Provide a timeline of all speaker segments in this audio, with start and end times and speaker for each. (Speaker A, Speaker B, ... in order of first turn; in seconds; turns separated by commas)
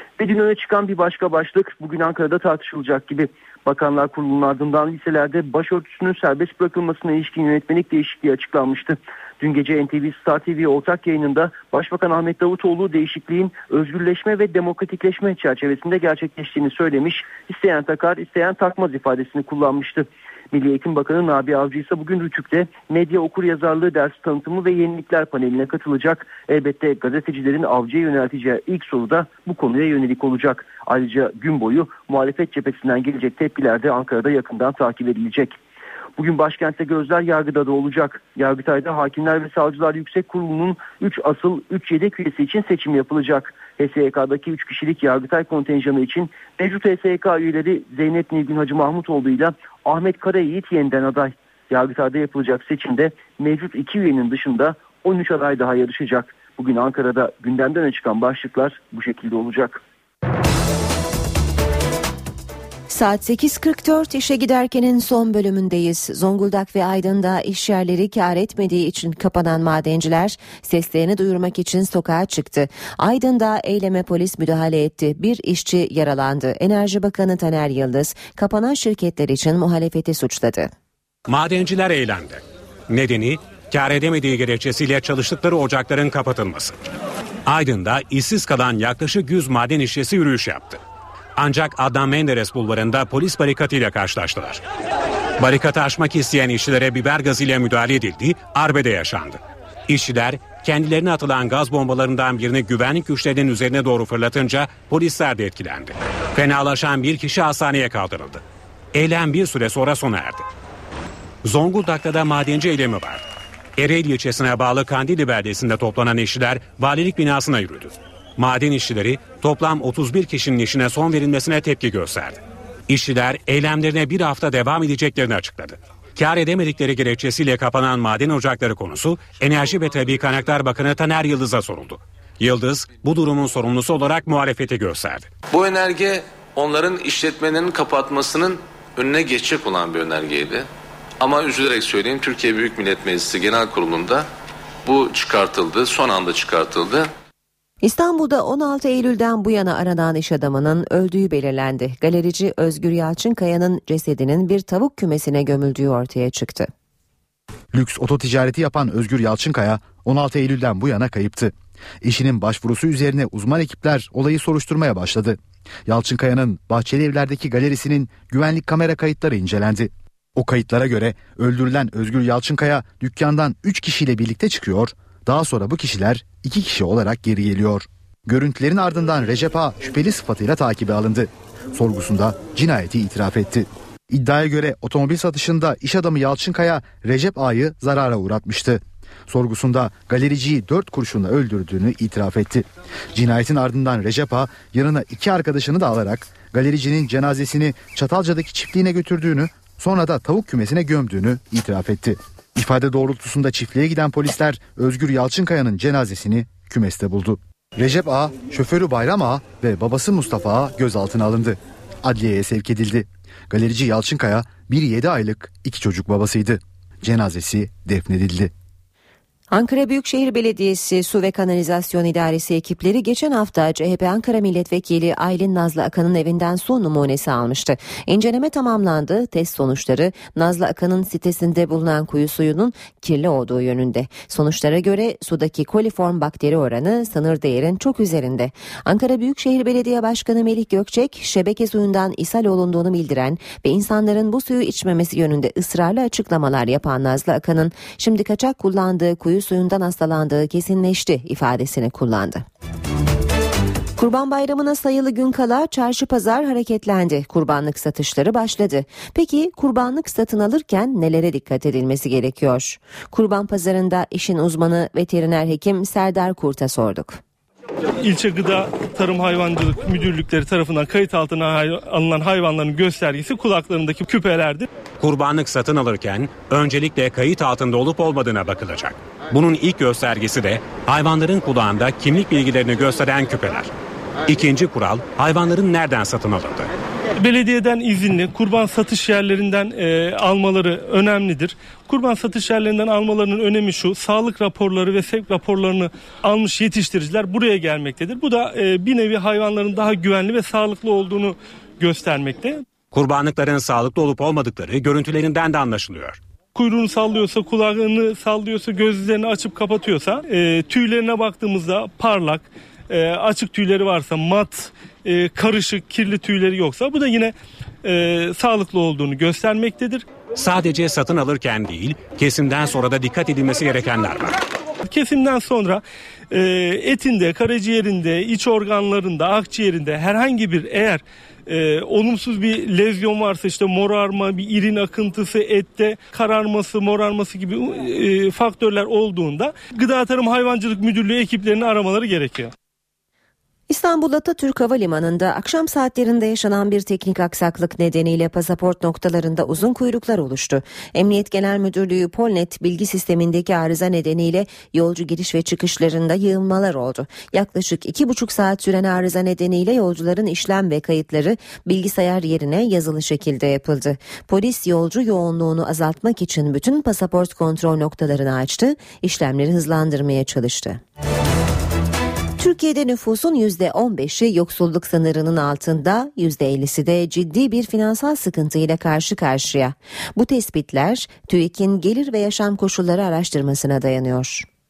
Speaker A: 0.2-35.5, Speaker A: 36.2-59.8, Speaker B: 62.9-80.7, Speaker C: 81.3-86.8, Speaker C: 87.5-90.8, Speaker C: 91.4-94.6, Speaker C: 95.4-108.4, Speaker C: 108.9-110.5, Speaker C: 111.4-113.2, Speaker C: 113.8-135.3, Speaker D: 135.5-140.7, Speaker D: 141.2-144.3, Speaker D: 144.8-147.1, Speaker B: 147.8-156.7, Speaker E: 157.7-218.5, Speaker B: 219.5-252.4, Speaker B: 254.0-267.2, Speaker F: 268.0-274.7, Speaker C: 275.0-283.7, Speaker C: 284.3-286.7, Speaker F: 287.2-302.6, Speaker C: 302.9-306.2, Speaker F: 306.6-320.1, Speaker C: 320.4-324.4, Speaker F: 324.9-342.5, Speaker B: 343.7-370.8, Speaker B: 372.4-384.5